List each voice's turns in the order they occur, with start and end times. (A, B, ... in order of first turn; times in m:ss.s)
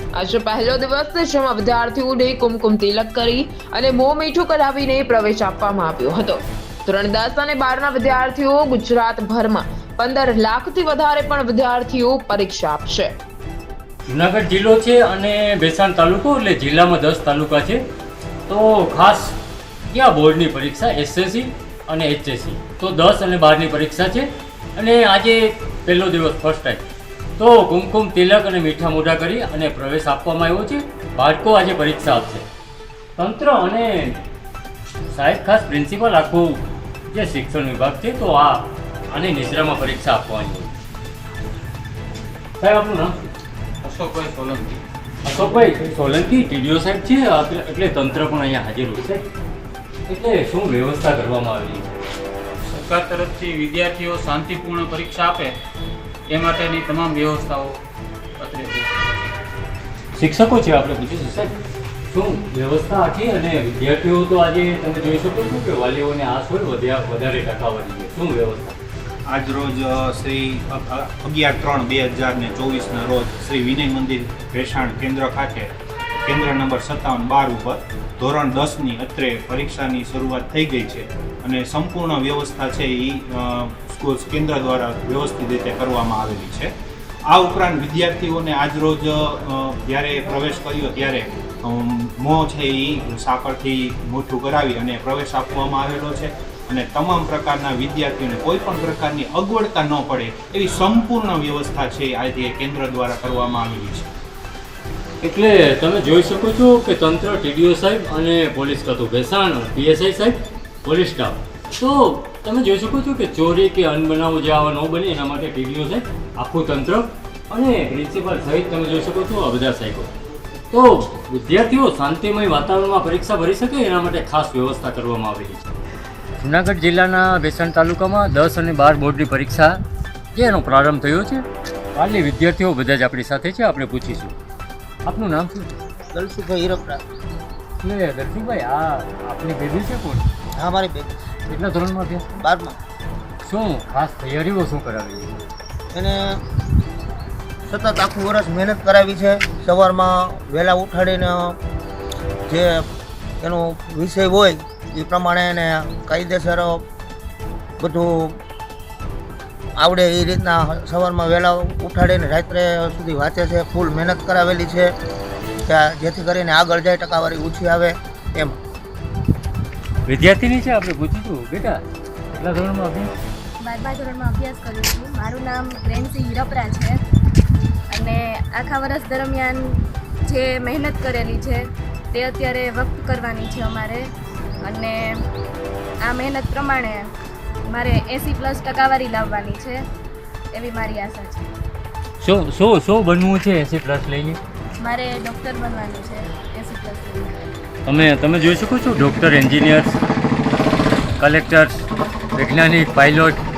0:00.2-0:13.1 A
0:14.1-0:17.8 B
0:18.5-0:19.4 B
0:19.9-0:26.8 B
0:27.4-0:32.4 B
0:33.2-0:34.2 B
0:35.1-0:40.7 B
0:42.6-0:43.2 B
0:43.8-0:44.8 C
0:45.2-0:49.2 B
0:50.1-0:51.9 B
0:52.6-0:55.6 C
0:56.3-0:57.8 C
0:58.4-0:58.9 C
1:00.2-1:01.6 B
1:02.1-1:08.8 B
1:09.3-1:15.7 D
1:16.2-1:26.7 D
1:27.3-1:44.1 D
1:45.2-2:00.1 B
2:00.7-2:05.6 B
2:06.4-2:09.8 B
2:10.3-2:11.4 B
2:11.9-2:14.3 B
2:15.1-2:15.7 B
2:16.1-2:17.0 E
2:17.8-2:20.2 B
2:20.6-2:21.2 E
2:21.5-2:22.2 B
2:22.4-2:22.8 E
2:23.4-2:25.4 B
2:25.9-2:26.4 E
2:27.6-2:31.6 E
2:32.5-2:32.9 E
2:33.4-2:36.8 E
2:37.8-2:38.4 E
2:39.8-2:44.9 E
2:45.6-2:48.6 E
2:50.1-2:53.1 B
2:53.6-2:57.0 F
2:57.9-3:04.1 F
3:04.6-3:05.2 F
3:06.0-3:07.1 F
3:07.7-3:09.8 F
3:10.5-3:11.5 F
3:12.2-3:14.4 B
3:14.8-3:17.5 F
3:17.8-3:20.0 B
3:21.2-3:21.8 B
3:22.4-3:23.4 B